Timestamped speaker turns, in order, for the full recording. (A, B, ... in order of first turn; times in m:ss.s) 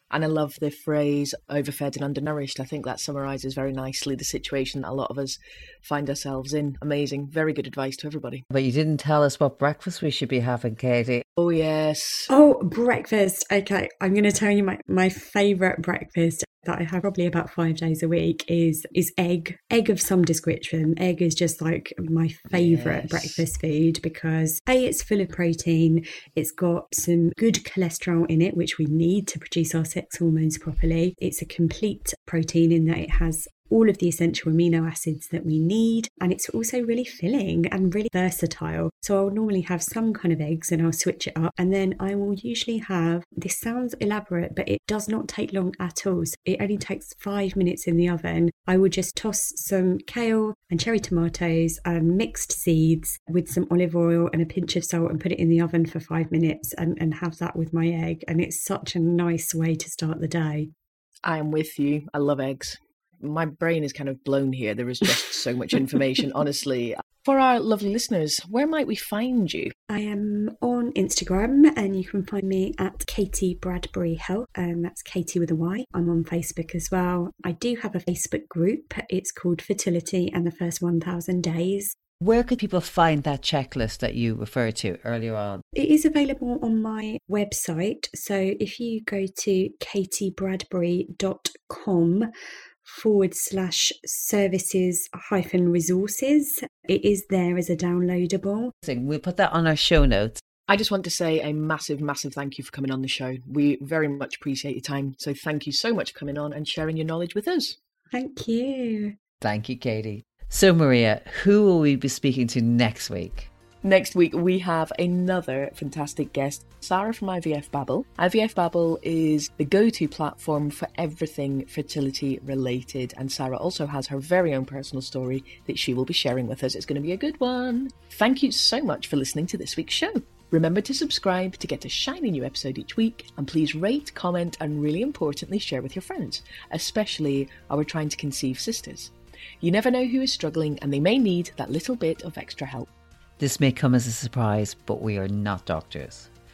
0:00.1-0:08.4 A
0:08.5-0:11.2 B
0:11.4-0:12.3 A
0:12.3-1:00.7 C
0:22.5-0:23.4 A
1:01.2-1:09.7 A
1:09.9-1:21.9 C
1:22.2-1:25.6 B
1:25.7-1:32.3 C
1:32.8-1:38.7 C
1:38.8-1:40.4 B
1:40.7-1:47.8 A
1:48.1-1:49.1 C
1:49.4-1:53.5 B
1:53.8-2:22.9 A
2:23.4-2:26.3 B